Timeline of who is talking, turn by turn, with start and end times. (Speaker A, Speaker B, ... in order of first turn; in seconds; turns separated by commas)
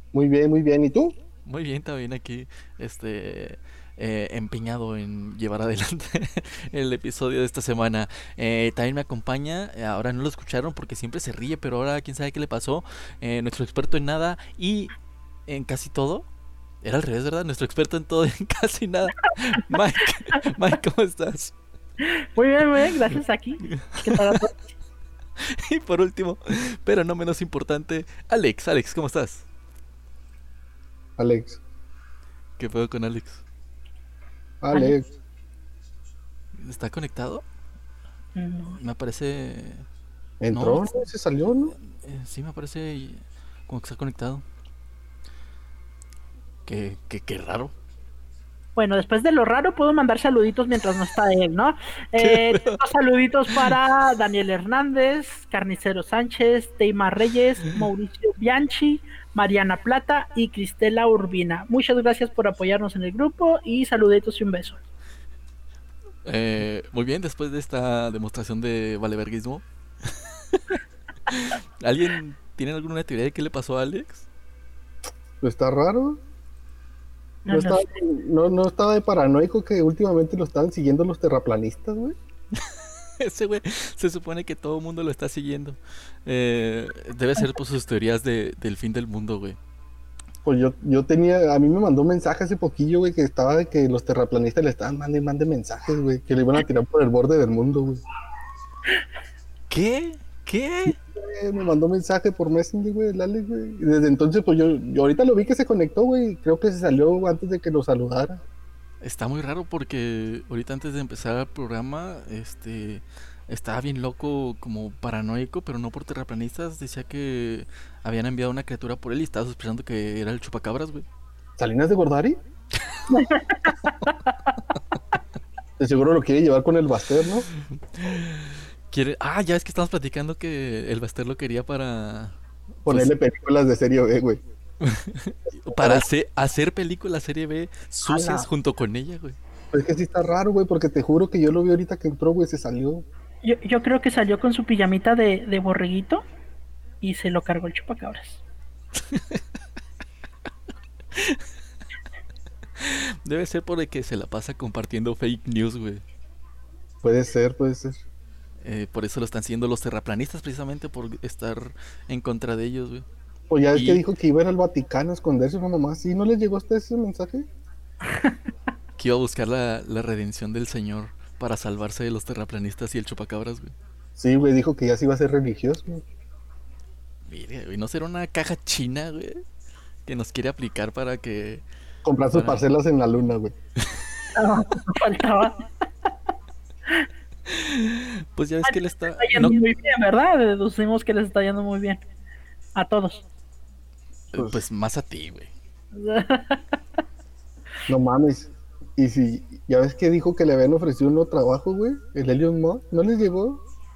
Speaker A: 0.1-1.1, Speaker B: 1.5-14.9, Speaker B: 15.5-16.3, Speaker B: 16.8-21.6, Speaker C: 22.1-24.7, Speaker B: 23.8-24.4, Speaker B: 25.7-29.5, Speaker A: 31.2-31.6, Speaker B: 32.6-33.4, Speaker A: 34.6-35.1, Speaker C: 34.7-35.0, Speaker B: 36.5-37.5, Speaker C: 38.4-38.8, Speaker B: 38.7-39.9, Speaker A: 40.4-41.7, Speaker B: 40.5-41.1, Speaker B: 41.8-44.5, Speaker B: 46.7-47.8, Speaker C: 48.8-64.8, Speaker B: 52.2-52.8, Speaker B: 66.2-69.7, Speaker B: 70.5-74.3, Speaker A: 75.4-76.2, Speaker C: 77.5-77.8, Speaker A: 77.5-82.2, Speaker B: 83.2-89.6, Speaker A: 90.5-98.0, Speaker B: 99.7-101.0, Speaker A: 100.9-108.4, Speaker B: 109.0-121.1, Speaker A: 121.6-122.4, Speaker C: 123.1-124.4, Speaker A: 125.8-127.5, Speaker B: 127.9-133.1, Speaker A: 132.9-134.4, Speaker B: 134.8-139.4, Speaker A: 135.7-136.0, Speaker A: 138.1-138.5, Speaker A: 139.7-143.1, Speaker C: 143.4-146.2, Speaker C: 147.0-148.4, Speaker B: 149.1-149.4, Speaker B: 152.8-156.0, Speaker A: 157.0-158.0, Speaker B: 158.6-163.1, Speaker A: 163.5-167.5, Speaker B: 163.7-164.0, Speaker C: 168.1-168.3, Speaker B: 169.0-173.8, Speaker A: 174.2-176.0, Speaker B: 177.3-179.4, Speaker B: 180.1-181.6, Speaker A: 182.0-183.5, Speaker B: 182.3-182.7, Speaker C: 184.4-185.7, Speaker B: 187.5-189.6, Speaker C: 188.6-192.0, Speaker C: 192.8-193.2, Speaker B: 194.3-195.5, Speaker C: 195.9-196.8, Speaker A: 197.9-203.6